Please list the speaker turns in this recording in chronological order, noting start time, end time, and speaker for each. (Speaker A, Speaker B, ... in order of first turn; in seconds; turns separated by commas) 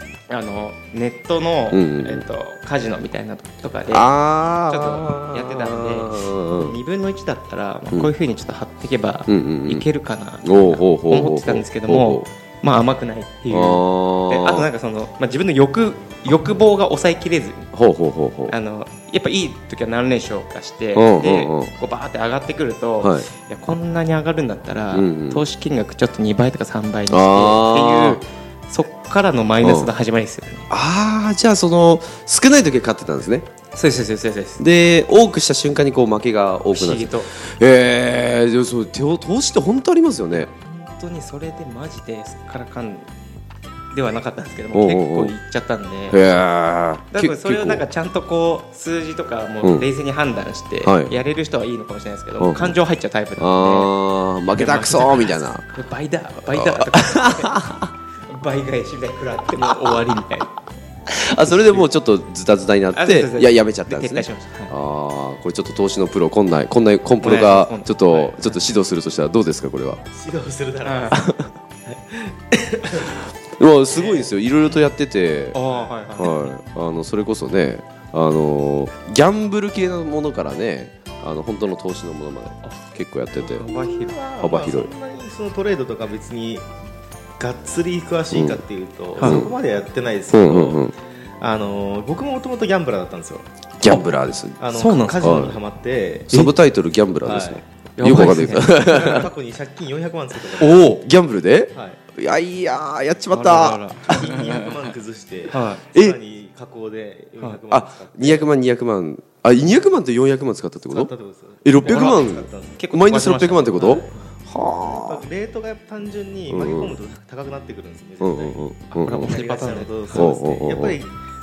Speaker A: 0.3-4.1, Speaker B: 1.7-2.2, Speaker B: 3.9-6.8, Speaker A: 4.7-17.7, Speaker B: 9.3-9.8, Speaker B: 10.4-12.3, Speaker B: 13.5-14.7, Speaker B: 17.7-18.6, Speaker A: 18.5-30.7, Speaker B: 20.9-21.7, Speaker B: 23.0-23.3, Speaker B: 24.9-25.4, Speaker B: 27.1-28.2, Speaker B: 29.6-29.9, Speaker B: 30.7-33.5, Speaker A: 33.7-34.6, Speaker B: 34.6-40.5, Speaker A: 36.7-37.3, Speaker A: 40.3-43.1, Speaker A: 43.9-46.2, Speaker B: 44.7-45.3, Speaker B: 46.1-47.8, Speaker A: 47.1-53.9, Speaker B: 49.6-49.9, Speaker B: 50.8-51.1, Speaker B: 52.4-52.8, Speaker B: 53.4-55.6, Speaker A: 54.5-57.6, Speaker B: 56.5-57.8, Speaker A: 58.3-60.5, Speaker B: 61.1-70.0, Speaker A: 62.9-64.7, Speaker A: 67.2-68.6, Speaker C: 70.1-71.2, Speaker A: 70.8-71.2, Speaker C: 72.0-73.3, Speaker B: 73.6-75.6, Speaker A: 73.9-74.3, Speaker A: 75.5-76.3, Speaker C: 75.6-76.0, Speaker B: 76.2-83.7, Speaker A: 83.3-84.3, Speaker C: 83.6-86.7, Speaker B: 84.4-84.9, Speaker C: 87.4-90.9, Speaker B: 88.3-88.6, Speaker A: 89.2-89.5, Speaker B: 89.2-89.5, Speaker B: 90.3-90.9, Speaker C: 91.4-93.5, Speaker B: 93.8-94.7, Speaker C: 94.6-96.6, Speaker A: 94.7-95.3, Speaker B: 95.2-95.6, Speaker B: 96.3-99.3, Speaker C: 97.2-97.6, Speaker A: 98.0-98.7, Speaker C: 98.5-101.0, Speaker B: 100.6-103.8, Speaker C: 101.7-102.0, Speaker A: 103.3-104.5, Speaker C: 104.0-108.5, Speaker A: 105.5-105.8, Speaker B: 107.7-111.1, Speaker C: 110.8-112.9, Speaker B: 111.6-115.2, Speaker A: 111.8-114.0, Speaker C: 113.8-121.1, Speaker B: 116.5-117.0, Speaker B: 118.2-119.4, Speaker A: 119.0-120.5, Speaker B: 120.1-121.0